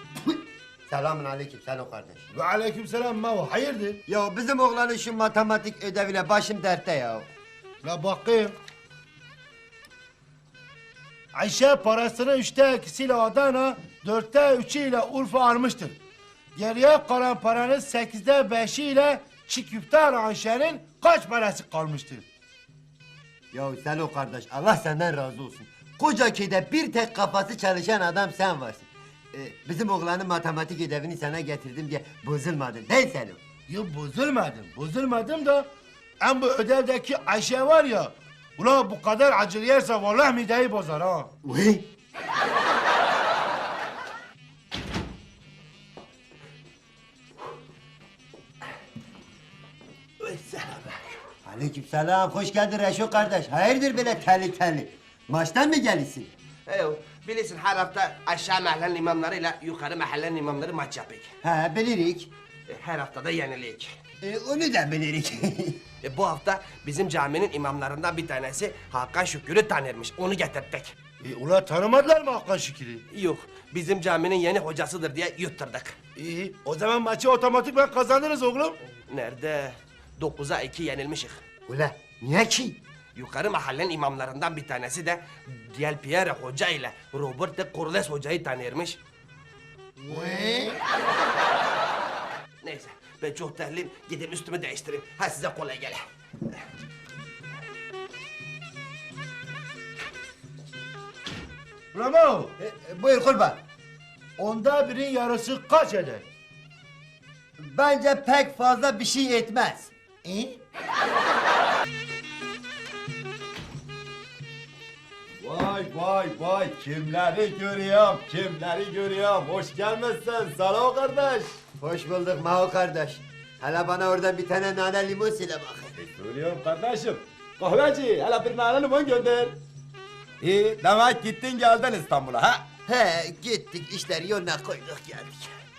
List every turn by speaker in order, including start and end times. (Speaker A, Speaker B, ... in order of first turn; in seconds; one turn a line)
Speaker A: 0.3-2.3
Speaker B: 2.3-4.0
Speaker A: 4.1-7.3
Speaker B: 7.8-8.6
Speaker B: 11.3-16.0
Speaker B: 16.6-22.3
Speaker A: 23.5-33.4
Speaker B: 33.7-35.7
Speaker B: 36.2-41.3
Speaker A: 41.4-41.9
Speaker C: 50.2-51.1
Speaker A: 51.5-56.3
Speaker C: 56.7-61.3
Speaker A: 61.4-62.3
Speaker C: 62.7-63.9
Speaker A: 64.2-65.8
Speaker C: 66.0-70.9
Speaker B: 71.2-73.0
Speaker C: 73.1-76.0
Speaker B: 76.2-78.8
Speaker C: 79.1-81.4
Speaker A: 81.7-82.8
Speaker C: 83.2-89.0
Speaker A: 90.1-90.8
Speaker B: 90.1-90.7
Speaker C: 92.6-96.0
Speaker B: 101.9-102.5
Speaker A: 102.6-103.6
Speaker B: 104.4-106.3
Speaker A: 107.6-109.9
Speaker B: 110.2-110.6
Speaker D: 115.4-121.5
Speaker A: 121.8-125.9
Speaker D: 126.0-129.6
Speaker D: 130.4-132.7
Speaker A: 132.9-135.5